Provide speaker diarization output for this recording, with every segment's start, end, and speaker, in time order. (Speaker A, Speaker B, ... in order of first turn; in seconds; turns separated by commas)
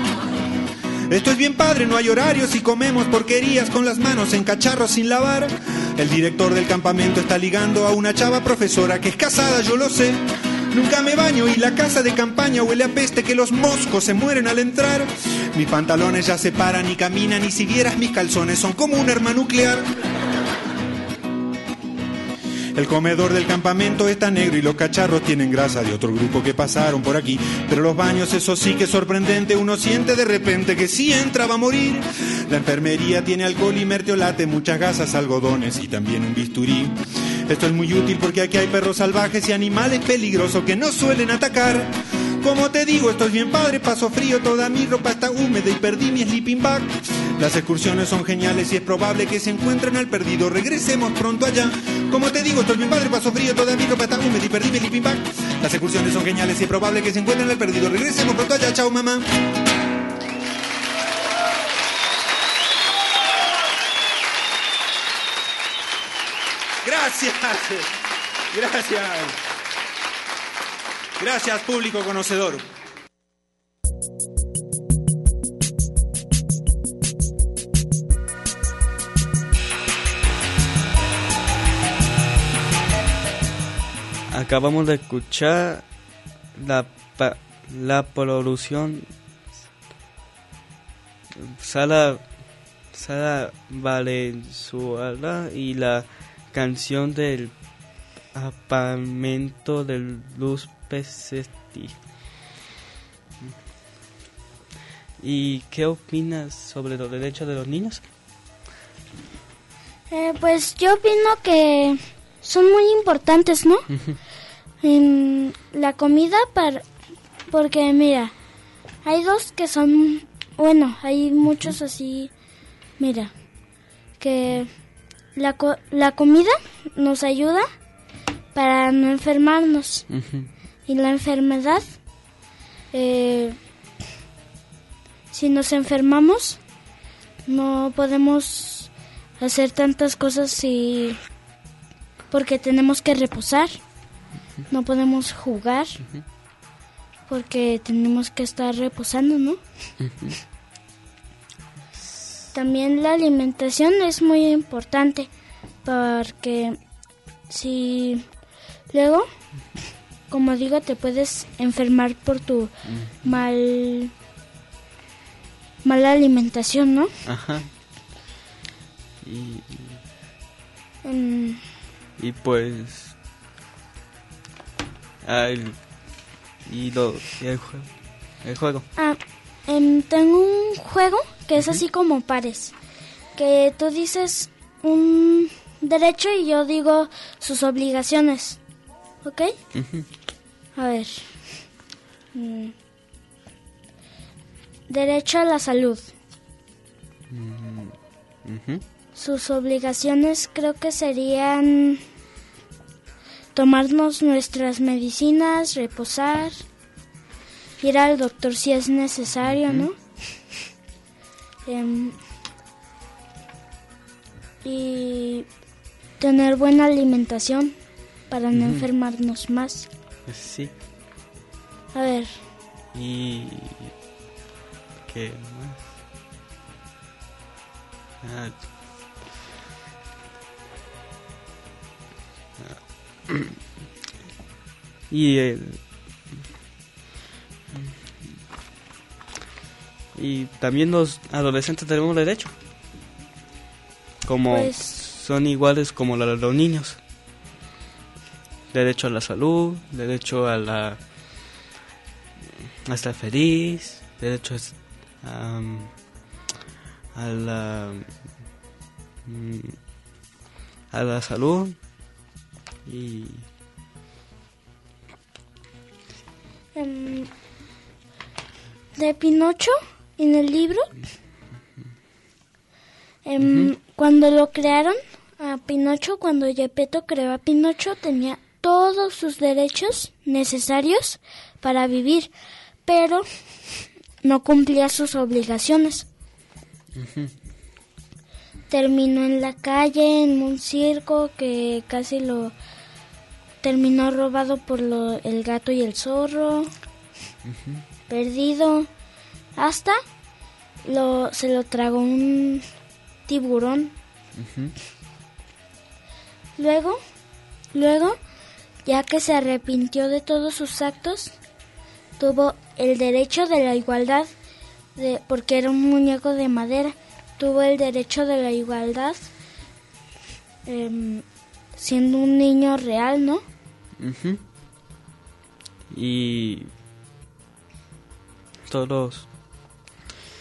Speaker A: 1.1-10.2, Speaker A: 10.7-19.9, Speaker A: 22.8-37.0, Speaker A: 37.5-59.2, Speaker A: 66.8-67.9, Speaker A: 68.5-69.3, Speaker A: 71.2-72.6, Speaker B: 84.3-85.8, Speaker B: 86.5-89.1, Speaker B: 91.4-92.2, Speaker B: 92.9-97.5, Speaker B: 98.3-101.9, Speaker B: 105.2-108.0, Speaker C: 110.1-113.9, Speaker C: 114.8-116.8, Speaker C: 117.5-118.3, Speaker C: 119.0-122.3, Speaker C: 123.0-123.3, Speaker C: 124.2-124.7, Speaker C: 125.3-127.7, Speaker C: 128.5-130.1, Speaker B: 130.1-130.5, Speaker C: 130.9-131.8, Speaker C: 132.9-133.6, Speaker C: 135.3-136.6, Speaker C: 137.5-141.2, Speaker C: 142.3-143.8, Speaker C: 144.7-146.0, Speaker C: 147.3-149.6, Speaker B: 150.0-150.3, Speaker C: 152.5-155.3, Speaker C: 155.8-156.8, Speaker C: 157.5-158.2, Speaker C: 158.9-159.3, Speaker C: 160.3-162.7, Speaker B: 162.9-163.3, Speaker C: 163.2-164.1, Speaker C: 165.8-167.1, Speaker B: 167.3-167.7, Speaker B: 169.2-170.0, Speaker C: 171.0-171.6, Speaker B: 172.2-173.1, Speaker B: 175.2-175.8, Speaker B: 176.7-177.9, Speaker B: 178.4-178.8, Speaker C: 178.9-182.7, Speaker C: 183.3-188.6, Speaker C: 189.2-189.5, Speaker B: 189.7-190.1, Speaker C: 190.8-191.3, Speaker C: 192.3-192.7, Speaker C: 194.9-196.1, Speaker B: 197.3-198.8, Speaker C: 199.1-202.0, Speaker C: 203.5-206.6, Speaker C: 207.8-209.9, Speaker B: 209.4-209.9, Speaker C: 211.7-212.2, Speaker C: 214.6-215.5, Speaker C: 216.2-217.7, Speaker C: 218.3-219.9, Speaker B: 218.5-218.8, Speaker B: 220.3-220.7, Speaker C: 221.9-222.4, Speaker B: 222.9-223.9, Speaker B: 225.1-225.8, Speaker B: 228.2-228.6, Speaker B: 232.6-233.6, Speaker B: 235.1-235.8, Speaker B: 240.2-242.5, Speaker B: 244.2-247.0, Speaker C: 244.5-245.0, Speaker B: 248.7-251.0, Speaker B: 252.9-255.9, Speaker B: 257.1-258.1, Speaker B: 259.2-259.8, Speaker B: 260.9-261.8, Speaker B: 262.9-263.4, Speaker C: 266.7-267.3, Speaker C: 269.0-270.9, Speaker C: 273.2-282.3, Speaker B: 273.4-273.7, Speaker C: 282.9-283.2, Speaker C: 284.2-286.1, Speaker B: 286.9-287.3, Speaker C: 288.7-292.5, Speaker C: 293.6-296.7, Speaker B: 297.4-297.8, Speaker C: 298.1-298.9, Speaker C: 299.6-300.0, Speaker C: 300.8-302.6, Speaker C: 303.3-303.9, Speaker B: 304.4-304.7, Speaker C: 306.6-307.0, Speaker C: 307.7-308.2, Speaker C: 308.8-311.4, Speaker C: 312.2-314.3, Speaker C: 314.9-319.3, Speaker C: 320.6-321.2, Speaker C: 321.8-323.4, Speaker B: 324.0-324.4, Speaker B: 325.9-326.7, Speaker B: 328.7-329.2